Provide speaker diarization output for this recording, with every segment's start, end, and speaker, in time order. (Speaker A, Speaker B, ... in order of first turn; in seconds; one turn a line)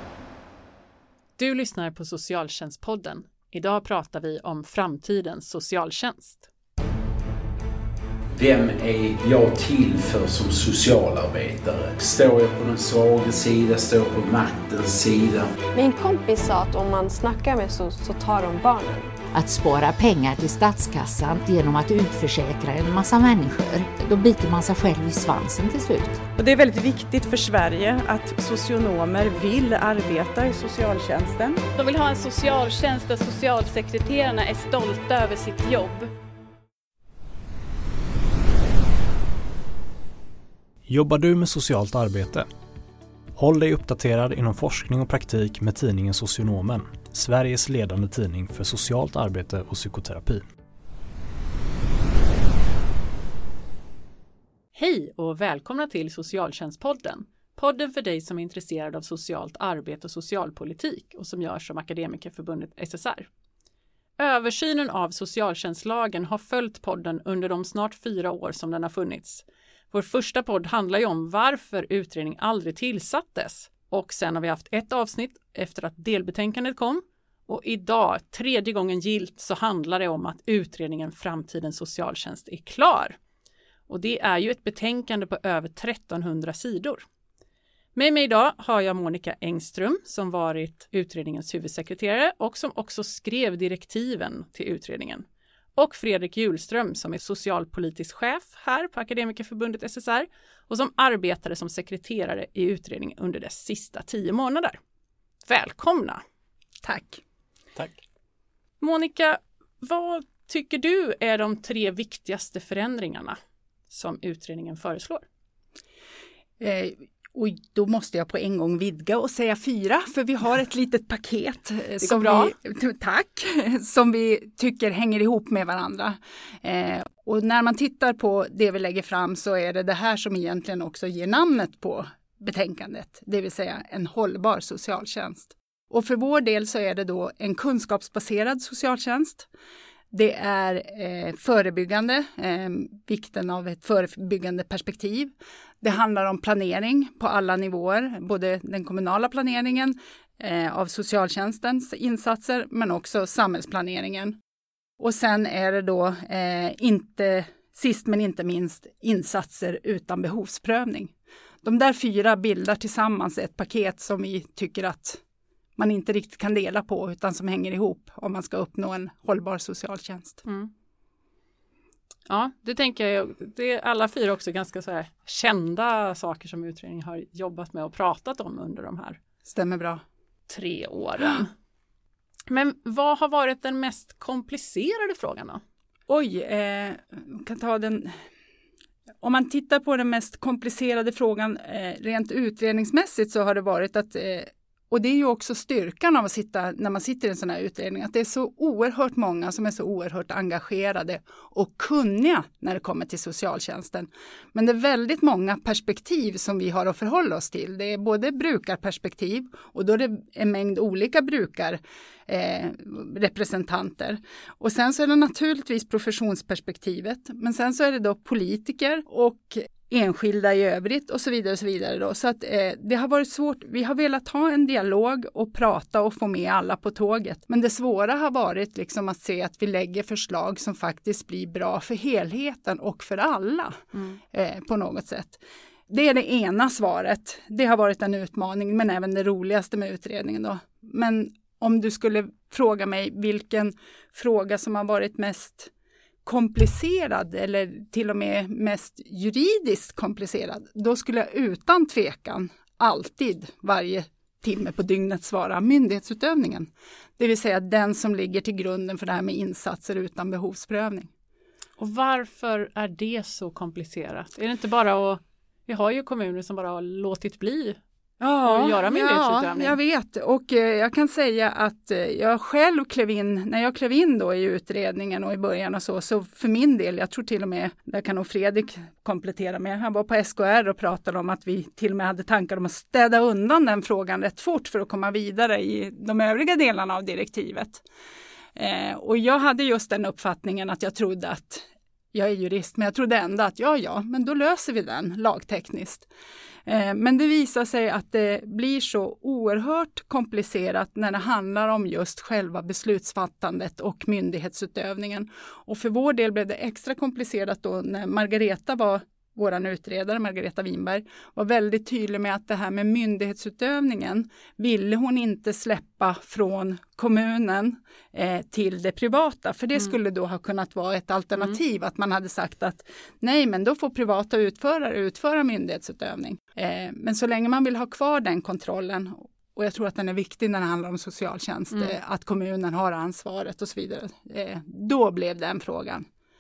Speaker A: 1.4-6.5
Speaker B: 8.3-15.5
Speaker C: 15.7-19.2
Speaker D: 19.3-26.2
Speaker E: 26.4-31.6
Speaker F: 31.7-36.1
Speaker G: 40.9-42.5
Speaker G: 43.4-50.4
Speaker A: 54.7-63.3
Speaker A: 64.2-83.2
Speaker A: 83.9-87.0
Speaker A: 88.0-95.2
Speaker A: 95.8-104.8
Speaker A: 105.5-106.2
Speaker H: 106.8-107.2
Speaker A: 108.8-113.4
Speaker A: 113.9-115.2
Speaker H: 116.6-139.5
Speaker A: 122.0-122.5
Speaker H: 140.1-154.4
Speaker H: 155.0-161.1
Speaker H: 161.6-165.2
Speaker H: 165.8-170.4
Speaker A: 170.4-170.7
Speaker A: 172.3-179.2
Speaker H: 179.5-180.0
Speaker A: 180.5-181.5
Speaker A: 182.5-185.6
Speaker H: 186.1-188.2
Speaker H: 189.2-245.7
Speaker H: 246.2-261.1
Speaker A: 261.8-267.8
Speaker H: 268.2-287.8
Speaker A: 268.4-269.8
Speaker H: 288.6-296.1
Speaker H: 296.6-336.1